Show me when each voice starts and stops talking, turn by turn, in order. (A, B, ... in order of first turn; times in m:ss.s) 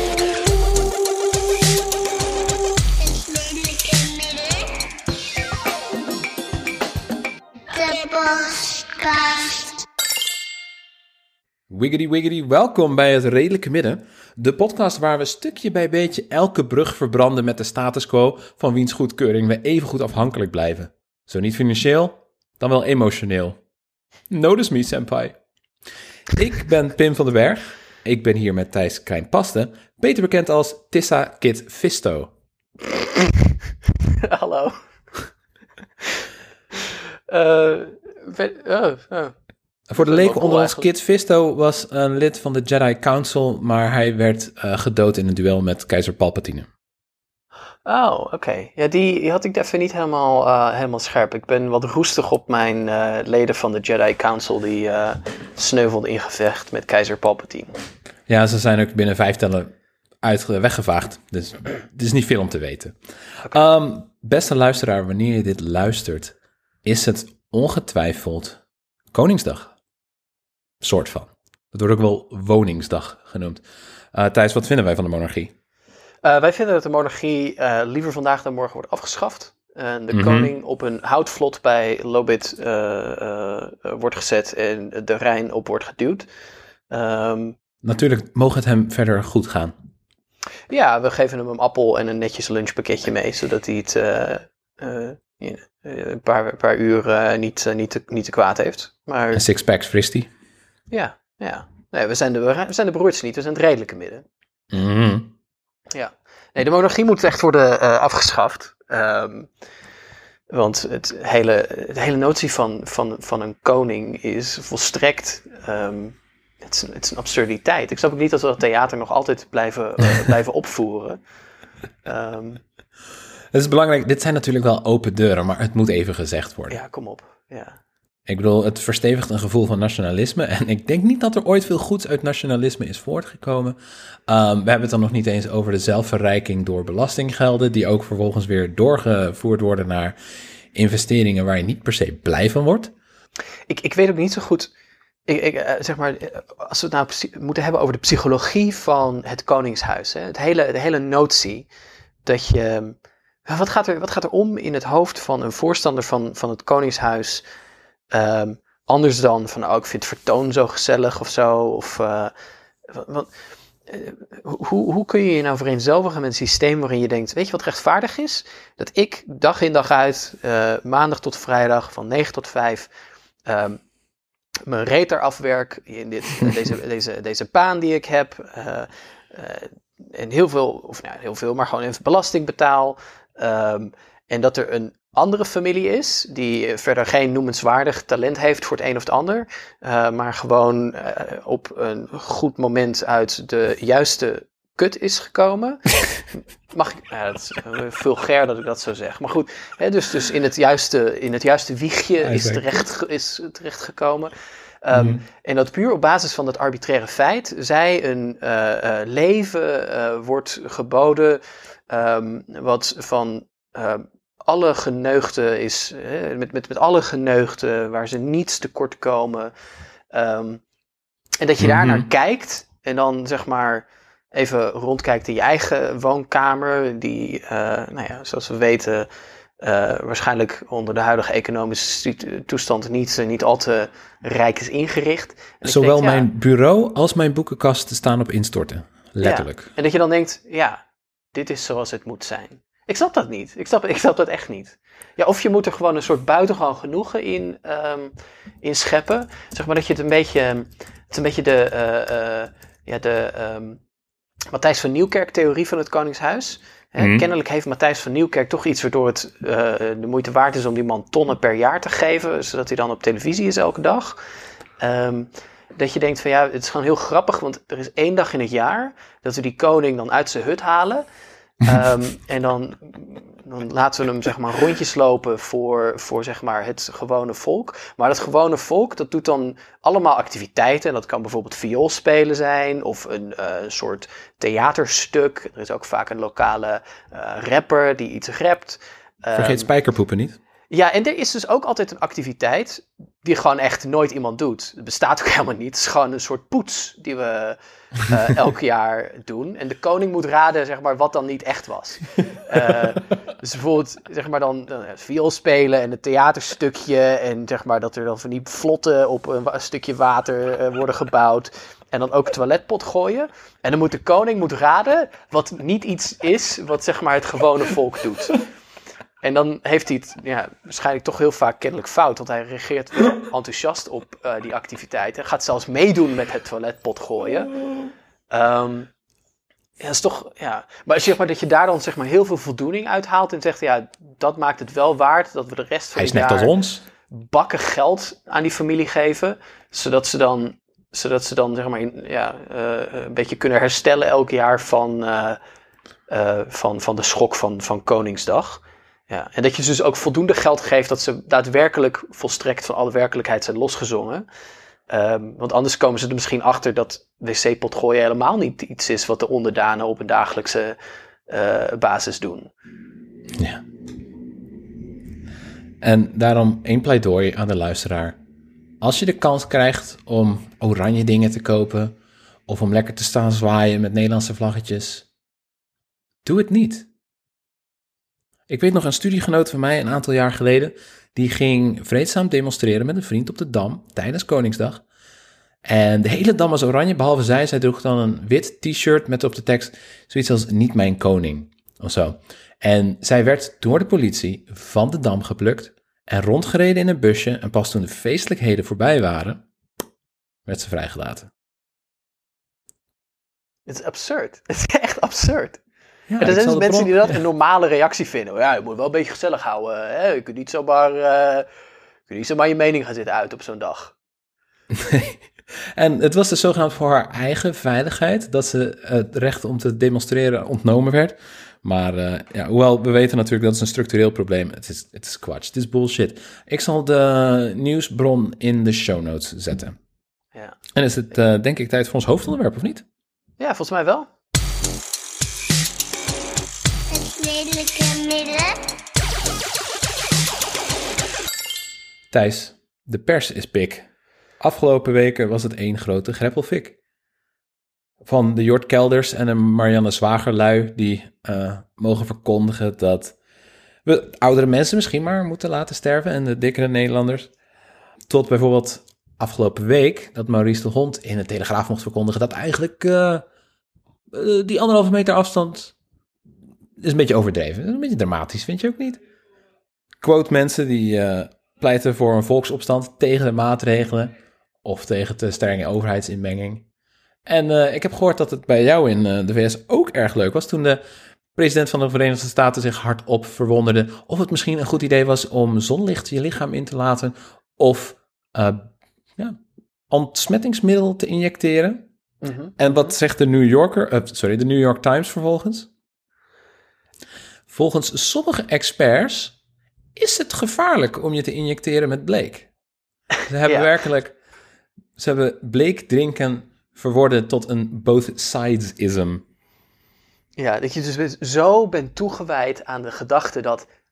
0:03.0-0:04.7 A
0:07.7-0:09.8 A
0:11.7-0:23.6 B
0:24.3-0:25.4 B
0:26.3-0:32.3 B
0:34.2-0:34.8 C
0:36.8-0:39.3 C
0:39.9-0:46.7 B
0:40.0-0:40.9 C
0:47.9-0:57.8 C
0:58.3-1:08.6 B
1:09.1-1:09.7 B
1:10.8-1:15.5 B
1:16.2-1:26.3 C
1:20.1-1:20.5 B
1:26.9-1:27.6 C
1:27.8-1:29.8 B
1:30.7-1:39.4 C
1:39.3-1:40.3 B
1:40.9-1:44.2 C
1:44.7-1:45.3 B
1:45.9-1:49.5 C
1:50.5-2:01.2 C
2:02.0-2:02.6 C
2:03.5-2:06.8 B
2:06.7-2:07.8 C
2:08.3-2:13.8 B
2:14.3-2:20.2 B
2:20.7-2:22.9 B
2:23.7-2:24.7 C
2:25.3-2:31.7 C
2:32.2-2:37.4 C
2:38.1-2:42.3 C
2:42.9-2:43.3 C
2:43.9-2:52.9 C
2:53.4-2:53.8 C
2:54.7-3:24.3 C
3:22.2-3:22.6 B
3:24.8-3:39.5 C
3:24.9-3:25.2 B
3:40.1-3:40.6 C
3:41.4-3:49.1 C
3:41.6-3:42.1 B
3:49.6-3:56.3 C
3:55.6-3:59.7 B
3:59.2-4:00.8 C
4:01.3-4:13.8 C
4:14.5-4:24.2 C
4:17.0-4:17.2 B
4:24.8-4:31.0 C
4:31.6-4:49.7 C
4:49.4-4:50.4 B
4:50.7-5:18.4 C
5:19.2-5:27.6 C
5:28.3-5:28.9 C
5:29.8-5:36.5 C
5:35.9-5:36.8 B
5:37.1-5:45.4 C
5:46.1-5:54.2 C
5:54.9-6:00.8 C
6:01.3-6:02.5 C
6:03.4-6:03.6 B
6:05.8-6:08.2 B
6:08.8-6:11.9 B
6:12.5-6:15.1 B
6:16.2-6:16.9 B
6:18.5-6:24.8 B
6:25.6-6:39.4 B
6:40.5-6:41.3 B
6:43.7-6:45.6 C
6:46.1-6:47.2 B
6:46.2-6:51.5 C
6:52.1-6:53.9 C
6:54.7-6:55.2 B
6:55.8-7:09.8 B
7:10.7-7:12.8 B
7:13.4-7:14.1 C
7:16.9-7:18.6 A
7:22.1-7:23.9 B
7:24.4-7:26.8 B
7:28.0-7:33.2 B
7:33.9-7:37.3 B
7:38.1-7:43.2 B
7:44.1-7:45.7 B
7:46.8-7:49.0 B
7:50.0-7:54.1 B
7:54.6-7:56.6 B
7:57.2-8:00.8 B
8:01.4-8:09.4 B
8:09.9-8:11.9 B
8:12.2-8:12.6 C
8:12.6-8:15.7 B
8:17.5-8:19.4 B
8:20.0-8:22.5 B
8:23.3-8:24.1 B
8:23.5-8:23.7 C
8:25.0-8:29.2 B
8:30.4-8:33.7 C